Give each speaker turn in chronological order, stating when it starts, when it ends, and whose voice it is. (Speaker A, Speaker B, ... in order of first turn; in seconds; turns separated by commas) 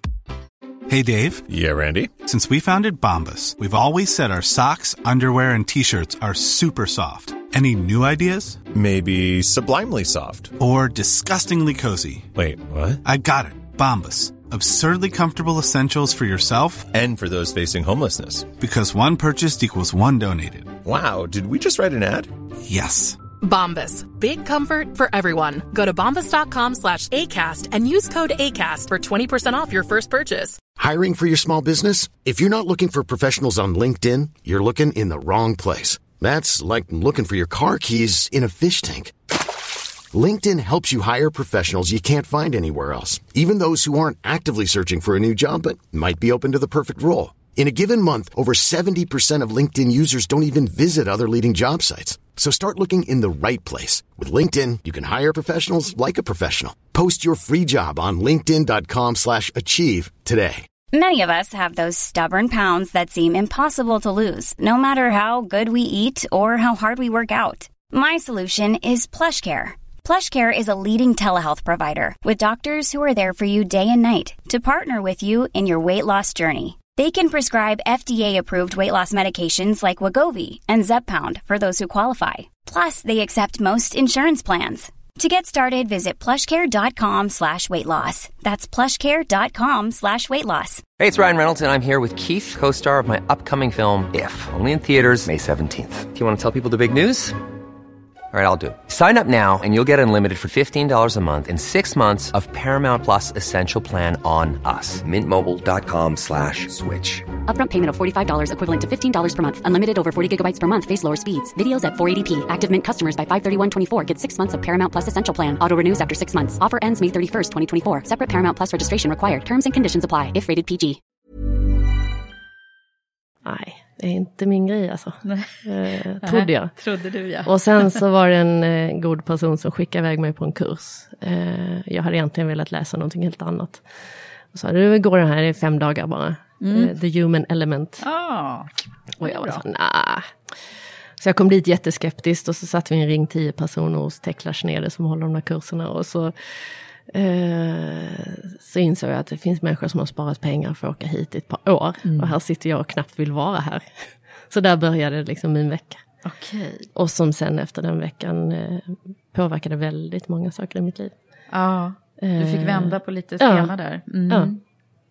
Speaker A: 0.9-1.4, Speaker B: 1.5-2.1, Speaker A: 2.2-8.6, Speaker B: 8.7-10.6, Speaker A: 10.6-12.3, Speaker B: 12.4-13.0, Speaker A: 13.0-16.9, Speaker B: 16.9-18.5, Speaker A: 18.6-20.8, Speaker B: 20.9-22.3, Speaker A: 22.6-23.2, Speaker C: 23.4-30.6, Speaker D: 30.8-39.1, Speaker D: 40.1-60.7, Speaker E: 60.9-90.8, Speaker F: 91.0-97.4, Speaker F: 98.3-107.3, Speaker G: 107.5-121.0, Speaker H: 123.4-126.7, Speaker I: 125.2-125.6, Speaker I: 126.2-128.0, Speaker H: 127.4-133.9, Speaker H: 134.5-138.1, Speaker I: 136.6-136.9, Speaker I: 138.0-139.6, Speaker H: 139.2-140.3, Speaker H: 141.2-156.0, Speaker I: 152.1-152.4, Speaker I: 156.2-156.9, Speaker H: 156.9-161.1, Speaker I: 161.5-164.6, Speaker H: 162.2-163.7